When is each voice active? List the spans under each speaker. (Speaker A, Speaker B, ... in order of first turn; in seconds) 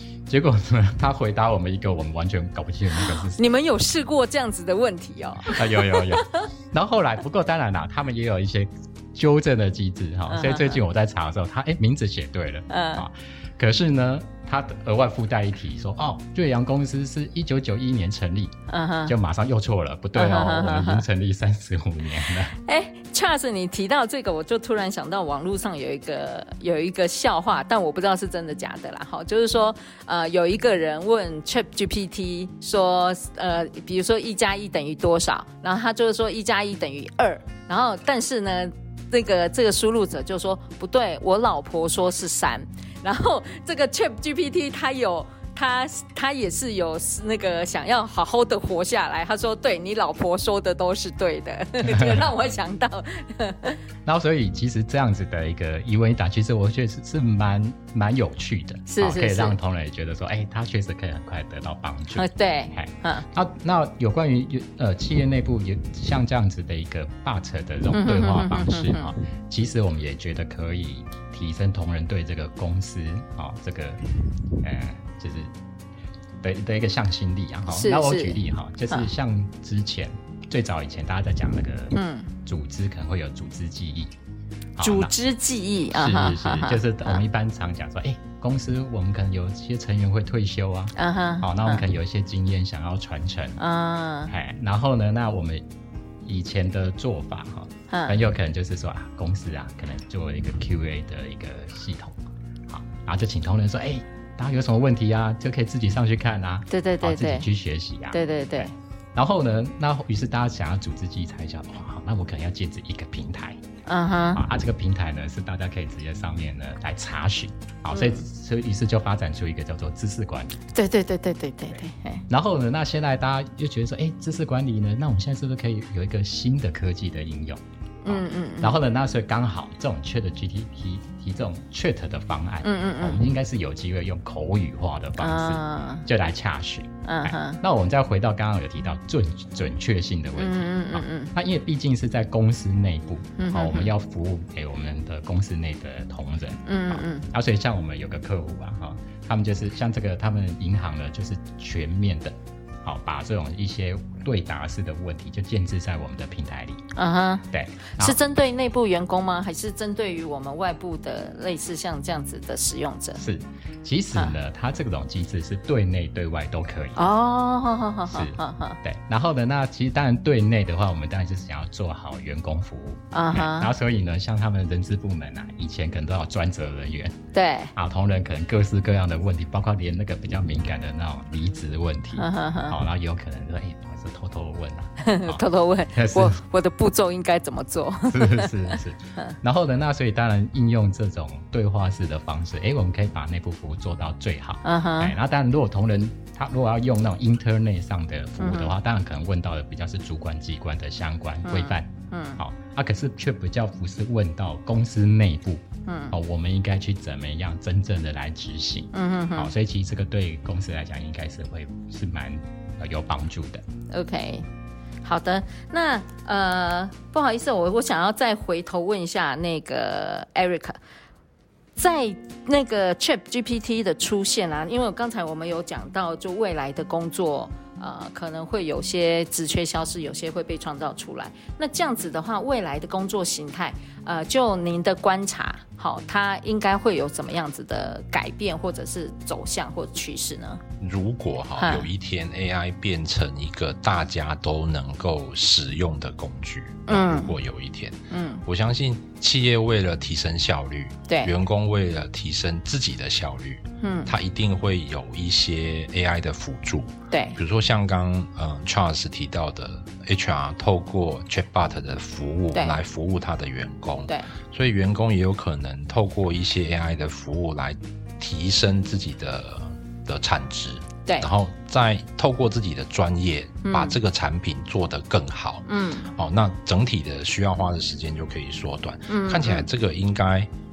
Speaker A: 0.3-3.4, 5.5-18.5, 19.1-22.5, 51.8-52.2, 54.0-74.0, 74.6-75.5, 76.4-84.1, 84.8-85.1, 85.9-93.6, 94.3-95.6, 96.2-102.2, 102.7-113.6, 114.3-120.6, 122.3-156.8, 157.5-158.2, 163.1-167.1, 168.1-177.1, 177.7-186.4, 188.1-213.6
Speaker B: 3.0-6.4, 10.3-10.8, 12.7-13.0, 18.7-19.1, 20.1-21.0, 22.5-53.8, 58.9-59.6, 62.1-63.3, 67.9-69.1, 77.7-79.1, 81.9-82.3, 84.8-87.2, 91.0-91.9, 93.6-94.3, 97.9-98.2, 106.7-107.5, 108.1-108.7, 113.8-114.5, 117.9-118.2, 120.7-122.2, 128.0-128.8, 132.6-133.2, 135.2-136.1, 137.0-137.6, 140.4-141.3, 143.4-143.9, 146.7-147.3, 156.9-157.4, 158.0-163.2, 166.9-168.8, 173.1-173.7, 177.3-177.7, 182.2-182.8, 185.0-189.3, 194.6-195.1, 198.4-198.8, 201.4-202.4, 205.8-206.2, 208.9-209.5, 213.9-214.4, 215.0-220.8, 221.8-240.6, 241.6-241.9, 246.9-247.3, 248.1-248.4, 251.1-251.3, 253.8-254.1, 257.1-257.4, 262.5-262.8, 273.6-274.0, 275.6-276.1, 279.1-279.7
Speaker C: 240.8-280.5